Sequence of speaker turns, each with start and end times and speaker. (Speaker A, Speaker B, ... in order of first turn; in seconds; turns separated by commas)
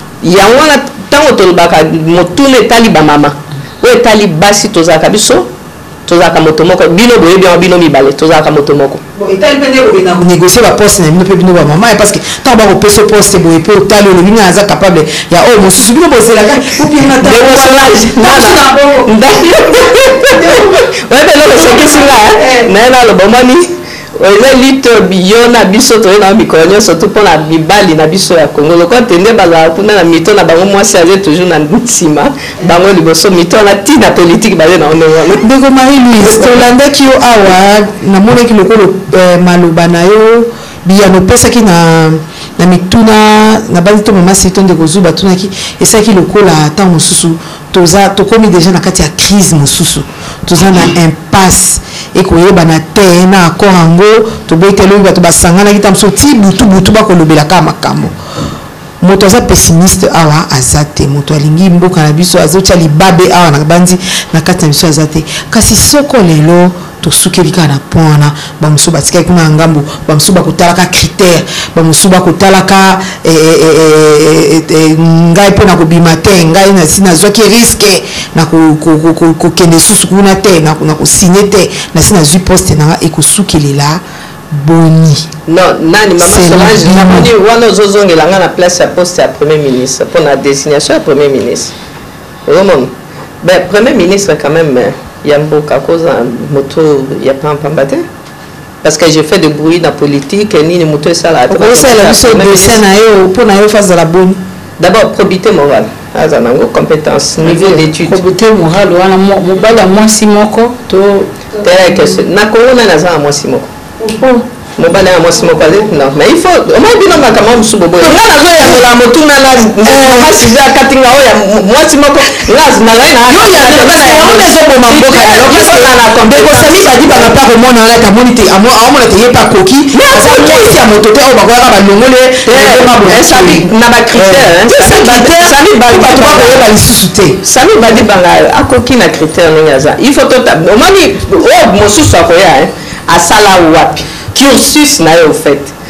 Speaker A: 0.2-5.5, Speaker A: 6.0-9.0, Speaker B: 9.2-20.8, Speaker A: 17.2-35.5, Speaker B: 21.5-22.7, Speaker B: 35.4-58.1, Speaker B: 59.0-85.3, Speaker A: 85.5-91.7, Speaker B: 86.2-87.3, Speaker A: 92.5-98.0, Speaker A: 98.8-102.8, Speaker B: 101.5-104.4, Speaker A: 104.8-108.2, Speaker C: 107.4-111.3, Speaker A: 111.6-113.7, Speaker B: 114.0-114.4, Speaker A: 114.8-127.3, Speaker B: 118.0-118.8, Speaker B: 119.8-120.4, Speaker B: 123.3-137.4, Speaker A: 129.9-130.8, Speaker A: 132.4-136.6, Speaker A: 137.4-145.7